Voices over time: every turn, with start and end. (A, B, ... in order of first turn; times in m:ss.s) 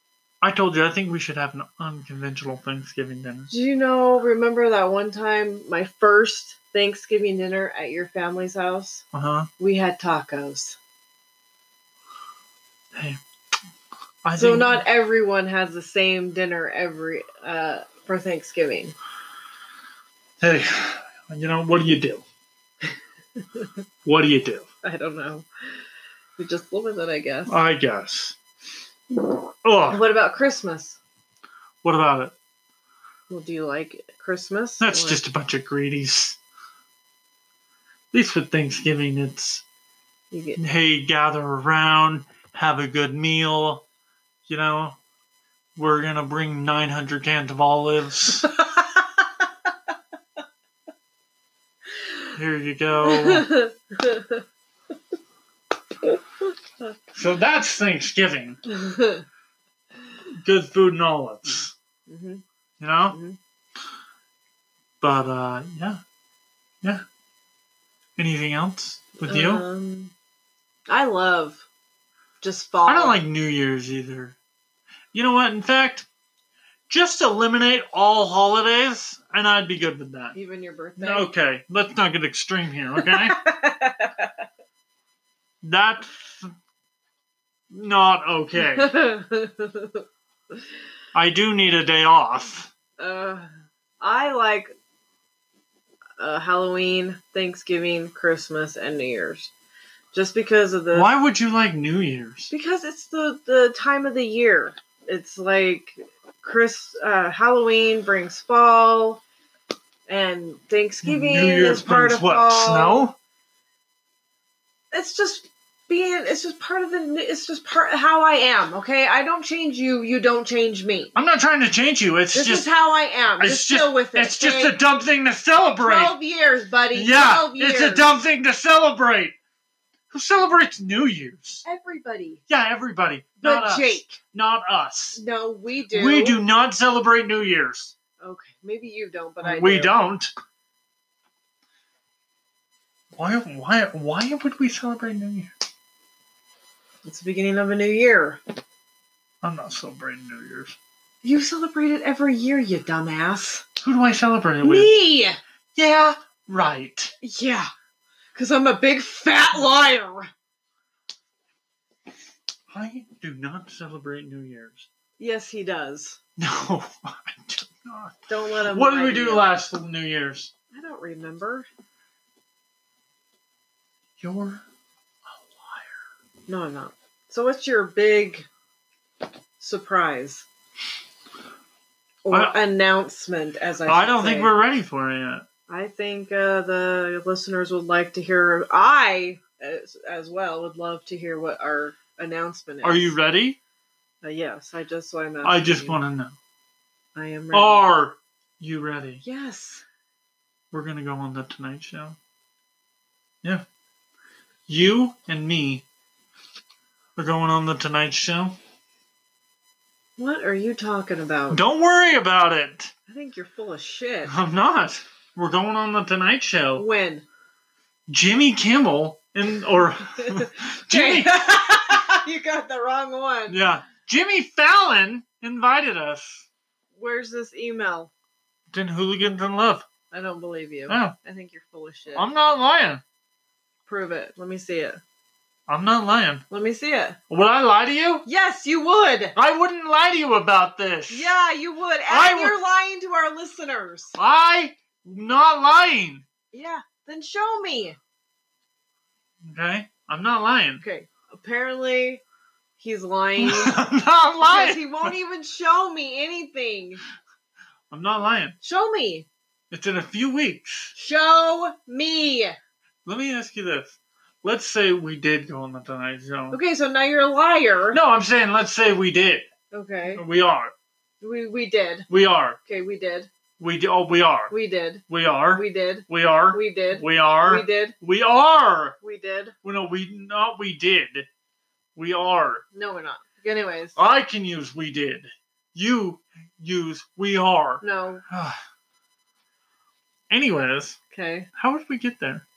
0:00.4-0:03.5 A
0:03.5-0:09.0 B
0:09.1-0:09.5 A
0:09.6-0:10.8 B
0:12.9-0:13.2 A
0:14.2-0:14.8 A
0:14.4-0:19.0 B
0:20.4-0:22.2 A
0:24.0-0:24.7 A
0:24.8-0:25.5 B
0:26.4-0:27.6 B
0:27.5-0:28.4 A
0:29.6-0:30.0 A
0:29.9-0:31.0 B
0:31.8-0:32.3 A
0:33.3-0:35.2 B
0:34.8-0:36.4 A
0:38.1-0:39.6 A
0:40.3-0:40.6 B
0:40.6-0:43.8 A
0:44.5-0:45.0 A
0:45.8-0:48.5 A
0:48.6-0:48.8 B
0:52.4-0:53.5 A
0:53.0-0:54.4 B
0:57.1-0:58.6 A
0:58.7-0:59.2 B
1:00.4-1:01.7 A
1:02.1-1:02.4 B
1:02.8-1:03.2 A
1:03.1-1:03.4 B
1:05.0-1:06.0 A
1:08.2-1:09.6 A
1:09.2-1:10.1 B
1:10.9-1:11.7 B
1:12.4-1:13.2 B
1:12.9-1:14.4 A
1:15.1-1:16.1 A
1:16.9-1:20.4 A
1:20.4-1:21.3 B
1:21.0-1:23.4 A
1:23.0-1:24.3 B
1:25.6-1:26.5 A
1:27.7-1:28.9 A
1:28.6-1:30.0 B
1:31.1-1:32.7 A
1:33.0-1:33.5 B
1:34.0-1:34.7 B
1:36.2-1:39.5 B
1:40.1-1:41.1 B
1:40.9-1:42.5 A
1:42.5-1:49.2 B
1:50.1-1:53.1 B
1:51.0-1:53.2 A
1:54.9-2:01.2 B
2:01.2-2:02.7 A
2:02.3-2:04.8 B
2:03.4-2:06.2 A
2:05.8-2:08.1 B
2:06.9-2:09.4 A
2:10.1-2:11.6 A
2:11.6-2:12.4 B
2:12.5-2:15.2 A
2:13.4-2:14.2 B
2:15.2-2:16.4 B
2:15.9-2:17.9 A
2:18.2-2:20.1 B
2:19.4-2:20.3 A
2:23.1-2:25.5 A
2:27.0-2:28.4 B
2:29.4-2:30.8 A
2:31.2-2:33.6 B
2:33.8-2:34.9 A
2:34.6-2:35.4 B
2:35.8-2:37.1 A
2:37.2-2:37.7 B
2:38.4-2:40.3 B
2:42.7-2:44.9 A
2:45.2-2:46.2 B
2:46.4-2:50.5 A
2:48.3-2:49.5 B
2:50.7-2:51.7 B
2:54.2-2:54.6 A
2:55.4-2:56.0 A
2:56.5-2:58.5 B
2:59.6-3:00.5 B
3:02.2-3:04.5 B
3:02.3-3:02.6 A
3:03.8-3:05.4 A
3:05.7-3:13.2 B
3:12.8-3:13.6 A
3:14.2-3:16.0 B
3:15.4-3:16.4 A
3:17.2-3:17.9 B
3:17.5-3:19.2 A
3:19.2-3:19.8 B
3:20.7-3:22.2 A
3:24.7-3:25.8 A
3:27.2-3:28.6 A
3:30.2-3:31.6 B
3:31.5-3:32.9 A
3:33.1-3:34.3 B
3:34.3-3:36.8 A
3:36.8-3:37.3 B
3:38.1-3:41.4 A
3:40.2-3:43.6 B
3:43.5-3:46.5 A
3:47.0-3:48.1 B
3:48.7-3:49.9 A
3:50.1-3:52.3 B
3:50.9-3:51.2 A
3:52.2-3:53.0 A
3:53.9-3:55.0 B
3:55.7-3:56.4 A
3:56.5-3:57.2 B
3:57.3-3:58.2 A
3:58.2-3:59.4 B
3:59.4-4:01.3 A
4:01.1-4:04.2 B
4:02.1-4:02.6 A
4:04.2-4:06.2 A
4:06.5-4:08.0 B
4:09.4-4:10.8 A
4:10.8-4:12.2 B
4:12.8-4:13.8 B
4:13.4-4:15.2 A
4:14.4-4:17.0 B
4:17.9-4:18.6 A
4:18.6-4:19.3 B
4:19.7-4:20.9 A
4:21.0-4:22.6 B
4:23.0-4:26.6 A
4:26.5-4:28.0 B
4:27.9-4:29.5 A
4:29.7-4:30.2 B
4:30.1-4:30.7 A
4:31.2-4:32.1 B
4:32.1-4:32.6 A
4:32.6-4:33.3 B
4:33.6-4:34.5 A
4:34.5-4:38.0 B
4:35.1-4:39.0 A
4:39.0-4:39.5 B
4:39.6-4:41.3 A
4:42.0-4:42.6 A
4:42.7-4:44.0 B
4:44.0-4:48.6 A
4:47.8-4:48.2 B
4:50.3-4:51.0 A
4:51.1-4:51.5 B
4:51.6-4:52.4 A